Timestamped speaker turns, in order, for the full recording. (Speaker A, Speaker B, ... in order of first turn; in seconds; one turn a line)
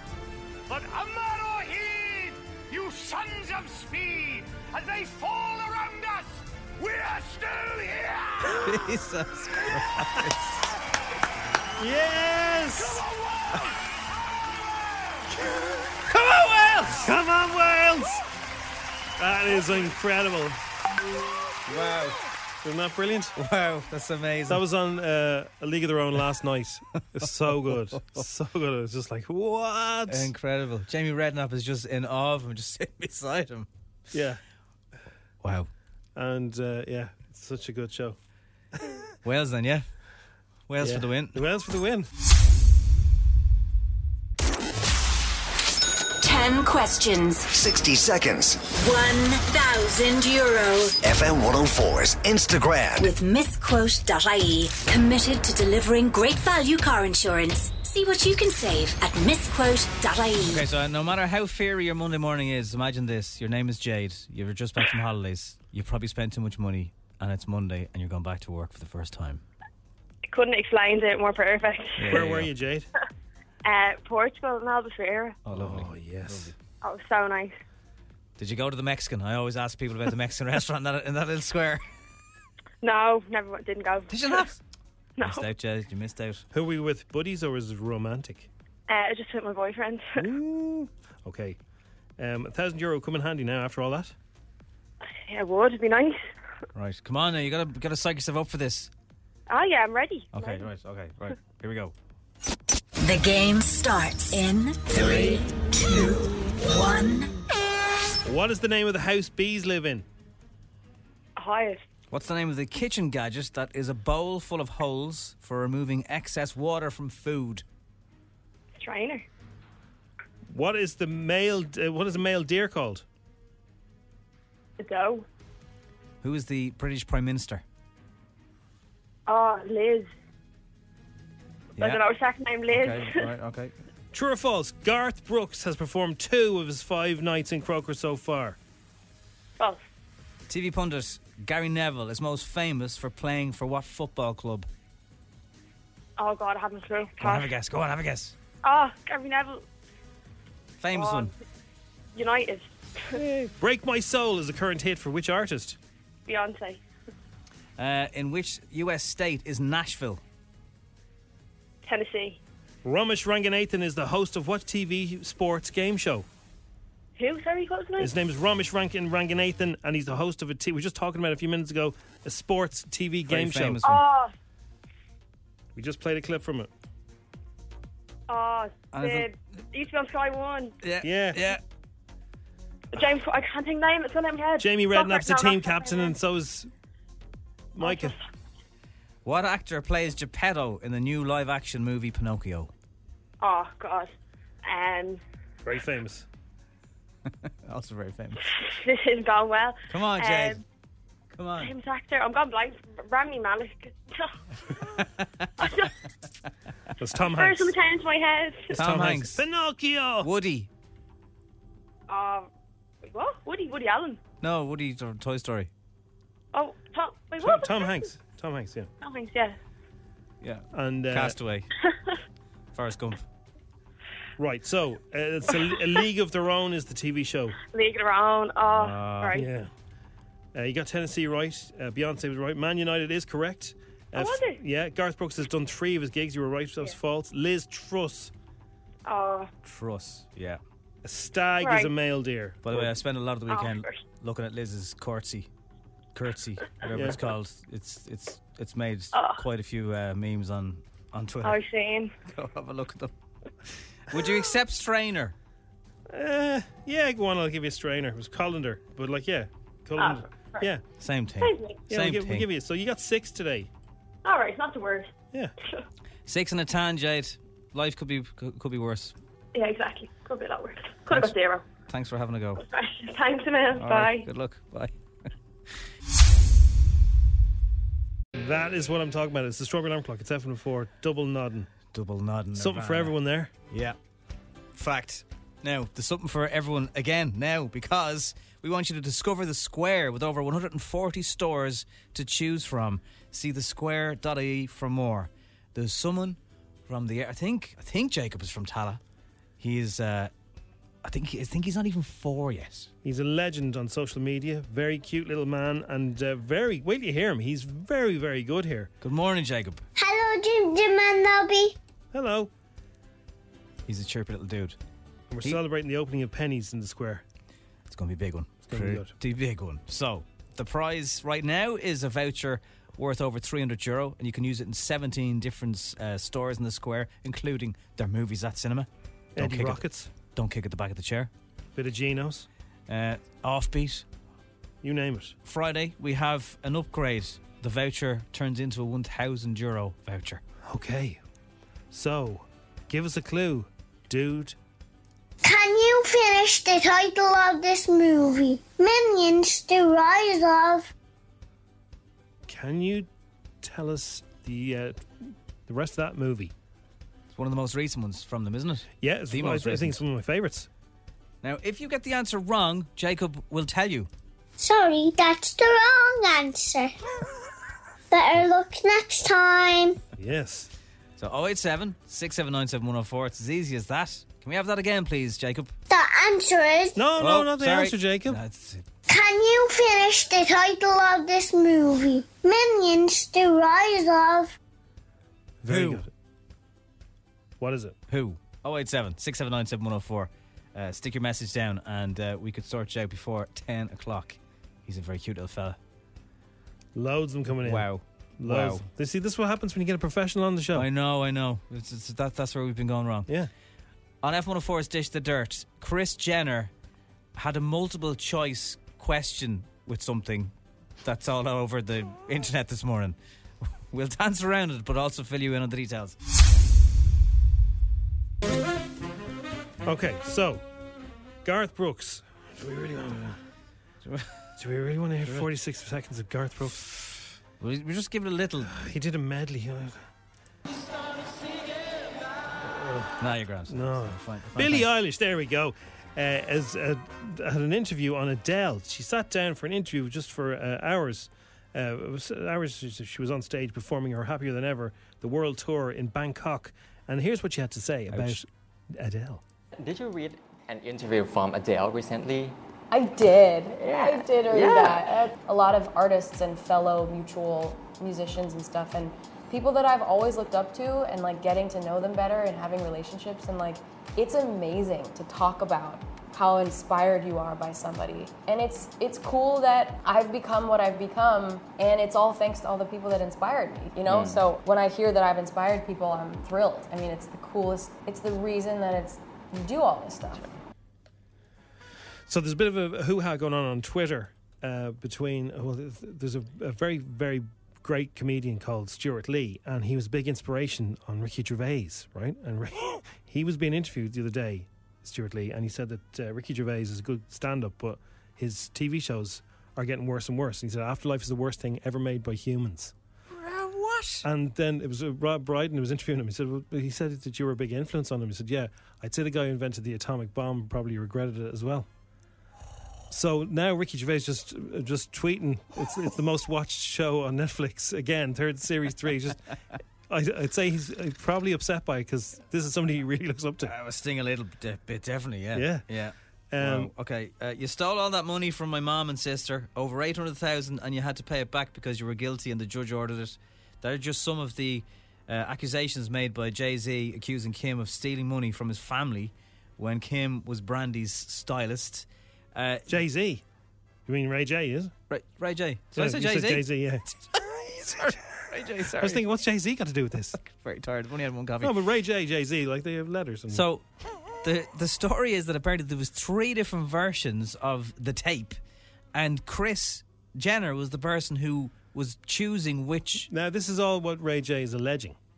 Speaker A: 0.7-8.6
Speaker B: 8.6-10.6
Speaker C: 11.8-13.0
Speaker A: 12.8-13.7
Speaker C: 15.4-15.9
Speaker B: 16.1-17.1
Speaker C: 16.9-18.2
Speaker C: 19.2-20.6
Speaker B: 21.7-22.2
Speaker C: 22.6-23.3
Speaker B: 23.4-24.6
Speaker C: 24.5-30.3
Speaker B: 27.2-28.2
Speaker B: 30.1-33.7
Speaker C: 34.1-34.4
Speaker B: 35.4-35.7
Speaker C: 36.1-38.1
Speaker C: 38.7-39.1
Speaker B: 39.2-39.9
Speaker B: 40.7-41.4
Speaker C: 40.8-42.1
Speaker D: 46.5-47.4
Speaker E: 47.5-48.6
Speaker D: 50.1-50.9
Speaker E: 51.0-53.1
Speaker D: 53.2-60.6
Speaker B: 60.5-69.4
Speaker F: 70.3-72.1
Speaker B: 72.0-72.5
Speaker C: 72.1-72.9
Speaker F: 73.6-75.4
Speaker B: 75.4-76.5
Speaker C: 75.5-76.5
Speaker F: 76.8-77.6
Speaker B: 78.4-81.8
Speaker F: 82.8-84.4
Speaker B: 84.1-84.6
Speaker F: 85.2-85.5
Speaker B: 85.2-86.4
Speaker C: 86.5-88.5
Speaker F: 88.9-90.3
Speaker C: 90.2-91.6
Speaker C: 92.2-94.1
Speaker F: 95.0-96.2
Speaker B: 96.7-98.9
Speaker F: 99.5-100.7
Speaker B: 100.3-101.9
Speaker D: 103.3-104.8
Speaker D: 106.9-107.2
Speaker C: 108.2-110.1
Speaker F: 111.4-111.8
Speaker B: 112.1-117.6
Speaker F: 118.8-119.2
Speaker C: 120.5-123.0
Speaker F: 124.8-125.2
Speaker B: 126.2-127.6
Speaker F: 129.3-130.1
Speaker B: 131.8-132.0
Speaker F: 131.8-133.3
Speaker B: 132.7-133.7
Speaker C: 134.1-138.6
Speaker B: 140.5-144.7
Speaker F: 146.2-147.5
Speaker B: 147.2-148.3
Speaker F: 148.6-149.6
Speaker B: 150.8-151.3
Speaker F: 150.9-151.3
Speaker F: 152.1-153.2
Speaker C: 153.1-155.8
Speaker F: 156.3-156.8
Speaker B: 157.8-160.2
Speaker F: 161.8-162.4
Speaker C: 162.8-166.2
Speaker F: 167.2-168.1
Speaker C: 168.0-173.8
Speaker B: 173.3-174.0
Speaker F: 173.8-174.3
Speaker C: 175.8-176.7
Speaker F: 178.3-180.8
Speaker B: 178.9-179.3
Speaker B: 180.8-181.6
Speaker C: 181.0-181.4
Speaker F: 182.9-186.1
Speaker C: 184.6-186.7
Speaker C: 187.7-188.2
Speaker F: 187.8-188.1
Speaker B: 189.2-192.7
Speaker F: 193.4-194.1
Speaker F: 194.6-195.2
Speaker C: 195.6-196.2
Speaker B: 197.4-198.4
Speaker F: 198.6-200.6
Speaker B: 199.9-200.6
Speaker B: 201.3-201.7
Speaker F: 201.6-204.3
Speaker B: 204.8-205.5
Speaker F: 205.6-205.9
Speaker C: 207.0-207.7
Speaker F: 207.2-208.7
Speaker C: 208.7-210.3
Speaker B: 208.7-209.4
Speaker B: 210.2-210.7
Speaker F: 212.1-212.5
Speaker F: 213.1-214.2
Speaker B: 214.4-215.7
Speaker F: 216.5-218.0
Speaker C: 217.4-218.9
Speaker F: 219.0-219.6
Speaker B: 220.4-221.7
Speaker C: 220.7-221.4
Speaker B: 222.7-223.2
Speaker C: 224.4-227.6
Speaker F: 227.7-229.5
Speaker B: 228.7-229.4
Speaker C: 229.3-229.7
Speaker C: 230.5-238.3
Speaker F: 234.2-234.6
Speaker F: 239.1-239.5
Speaker B: 239.6-240.6
Speaker C: 241.0-242.9
Speaker F: 241.6-241.9
Speaker B: 242.6-245.5
Speaker F: 243.5-244.0
Speaker B: 246.1-251.6
Speaker C: 246.9-247.2
Speaker F: 249.1-249.4
Speaker F: 251.4-252.1
Speaker B: 252.2-253.1
Speaker B: 254.1-255.3
Speaker C: 256.1-260.8
Speaker F: 260.0-260.7
Speaker B: 261.0-262.5
Speaker F: 261.4-261.8
Speaker C: 261.9-263.7
Speaker F: 264.2-265.1
Speaker B: 266.2-269.1
Speaker F: 269.5-271.6
Speaker B: 271.9-272.6
Speaker F: 272.6-274.3
Speaker B: 273.7-274.9
Speaker C: 278.4-281.7
Speaker B: 281.9-283.2
Speaker C: 282.6-283.5
Speaker B: 283.7-283.9
Speaker B: 284.7-299.0
Speaker B: 299.6-300.3
Speaker B: 301.0-302.9
Speaker C: 303.0-308.9
Speaker B: 309.0-309.8
Speaker G: 309.9-311.8
Speaker C: 312.1-312.5
Speaker B: 313.9-314.8
Speaker C: 315.3-317.2
Speaker B: 317.9-331.3
Speaker C: 318.7-319.1
Speaker C: 329.4-330.1
Speaker C: 331.8-332.5
Speaker B: 332.9-334.1
Speaker C: 334.8-335.4
Speaker B: 335.4-340.4
Speaker C: 340.7-341.2
Speaker C: 341.9-344.6
Speaker G: 345.4-350.9
Speaker C: 352.5-353.1
Speaker C: 353.6-356.5
Speaker B: 357.3-360.0
Speaker C: 359.0-360.7
Speaker B: 361.4-364.1
Speaker G: 364.6-366.9
Speaker G: 368.1-370.0
Speaker C: 370.2-370.7
Speaker B: 371.2-375.7
Speaker G: 375.9-377.0
Speaker C: 376.9-378.4
Speaker B: 377.2-378.9
Speaker G: 379.1-384.6
Speaker C: 385.6-386.1
Speaker B: 385.7-386.0
Speaker C: 387.6-387.9
Speaker B: 388.1-395.8
Speaker C: 396.9-397.9
Speaker B: 397.6-398.9
Speaker C: 398.4-400.9
Speaker B: 400.7-403.3
Speaker B: 404.2-406.7
Speaker B: 407.4-413.2
Speaker B: 413.9-416.1
Speaker C: 419.9-420.6
Speaker C: 421.4-423.4
Speaker B: 424.1-424.3
Speaker C: 424.6-426.8
Speaker B: 427.6-428.7
Speaker C: 428.7-430.0
Speaker C: 432.6-433.1
Speaker B: 433.2-434.9
Speaker C: 433.7-449.4
Speaker B: 448.1-448.4
Speaker H: 449.8-452.6
Speaker I: 452.9-480.5
Speaker H: 453.8-455.0
Speaker H: 474.1-474.4
Speaker C: 482.3-502.9
Speaker B: 503.4-504.2
Speaker C: 504.2-511.9
Speaker C: 513.1-519.4
Speaker C: 520.1-523.7
Speaker B: 523.6-543.0
Speaker C: 525.5-525.9
Speaker C: 526.5-526.9
Speaker C: 542.9-543.4
Speaker C: 544.1-544.9
Speaker B: 545.1-546.7
Speaker C: 546.0-547.1
Speaker B: 547.3-549.2
Speaker C: 548.9-550.4
Speaker B: 550.4-551.8
Speaker C: 551.6-553.6
Speaker B: 553.5-553.8
Speaker B: 554.4-558.6
Speaker B: 559.1-563.3
Speaker C: 563.2-565.2